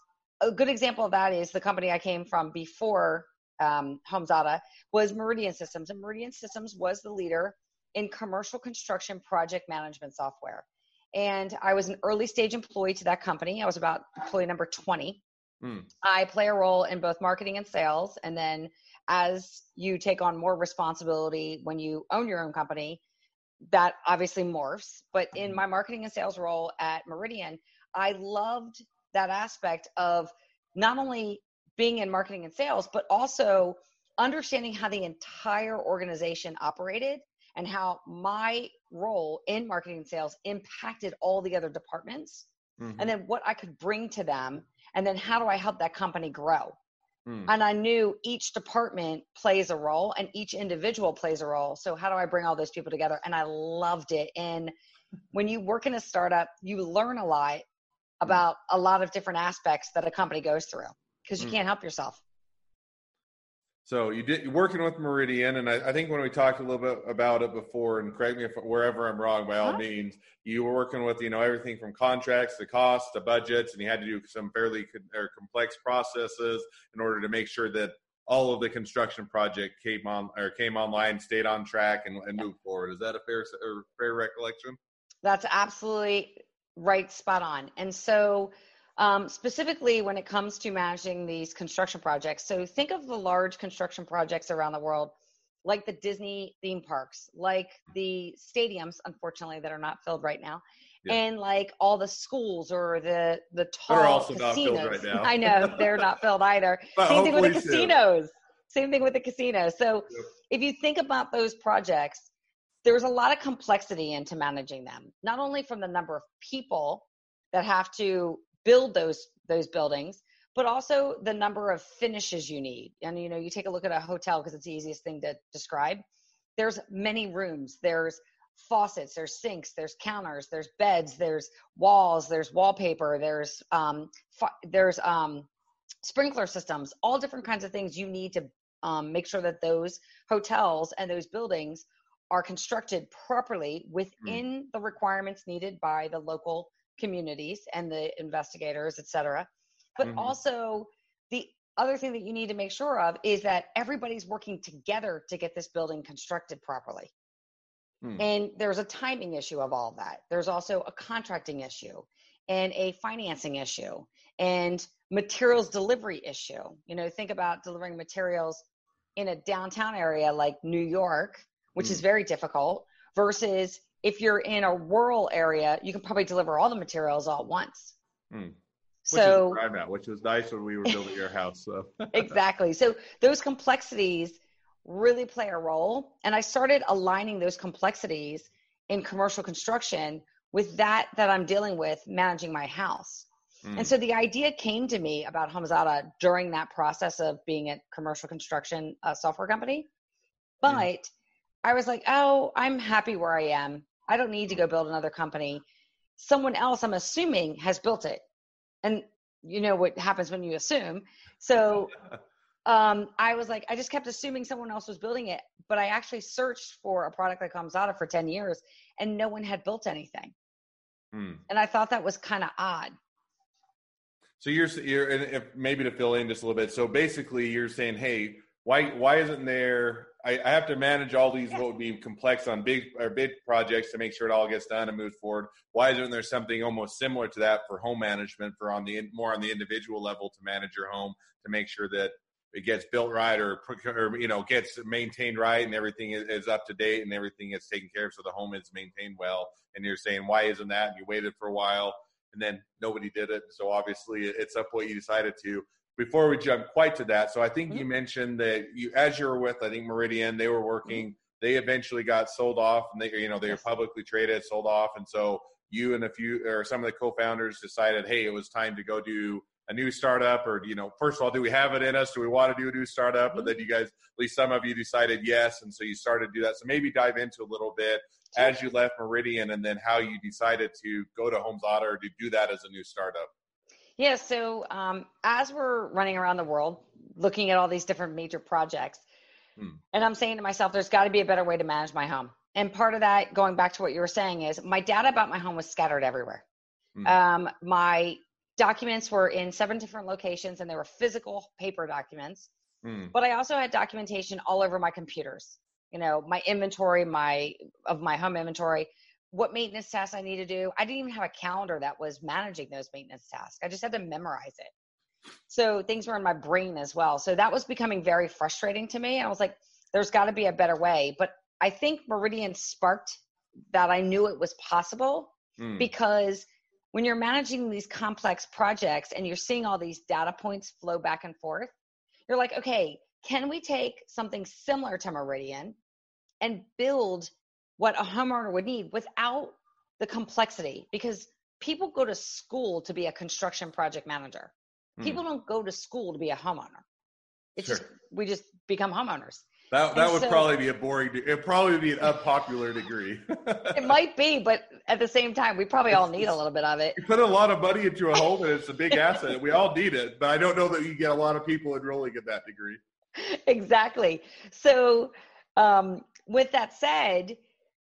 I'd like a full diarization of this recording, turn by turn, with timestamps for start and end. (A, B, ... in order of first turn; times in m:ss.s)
0:00.4-0:15.2 A
0:15.6-0:15.9 B
0:16.0-0:23.0 A
0:23.7-0:46.8 A
0:42.8-0:43.1 B
0:47.3-0:47.5 B
0:47.5-0:54.7 A
0:55.3-0:57.6 A
0:58.2-1:02.2 A
1:03.8-1:24.8 B
1:25.2-1:35.1 A
1:35.6-1:52.3 A
1:43.9-1:45.9 B
1:47.0-1:47.9 B
1:52.8-2:06.0 A
2:06.6-2:15.5 A
2:16.0-2:37.1 A
2:30.0-2:30.3 B
2:38.2-2:48.6 A
2:49.2-2:58.0 A
2:58.3-2:58.6 B
2:59.1-2:59.6 A
2:59.1-3:02.3 B
3:02.1-3:19.9 A
3:13.6-3:13.9 B
3:20.6-3:21.1 A
3:21.6-3:25.6 A
3:26.2-3:28.2 A
3:28.8-3:32.0 A
3:32.7-3:40.4 A
3:41.1-3:41.4 B
3:41.5-3:42.9 A
3:44.4-4:43.3 B
4:44.0-4:49.0 A
4:49.9-4:56.4 A
4:57.0-5:02.5 A
5:02.8-5:03.1 B
5:03.1-5:14.7 A
5:15.5-5:23.2 A
5:23.7-5:31.7 A
5:25.6-5:25.9 B
5:32.3-5:35.8 A
5:36.4-5:46.8 A
5:47.6-5:50.5 A
5:49.7-5:53.8 B
5:53.7-5:57.0 A
5:55.9-5:56.2 B
5:57.0-6:02.8 B
6:03.2-6:07.4 A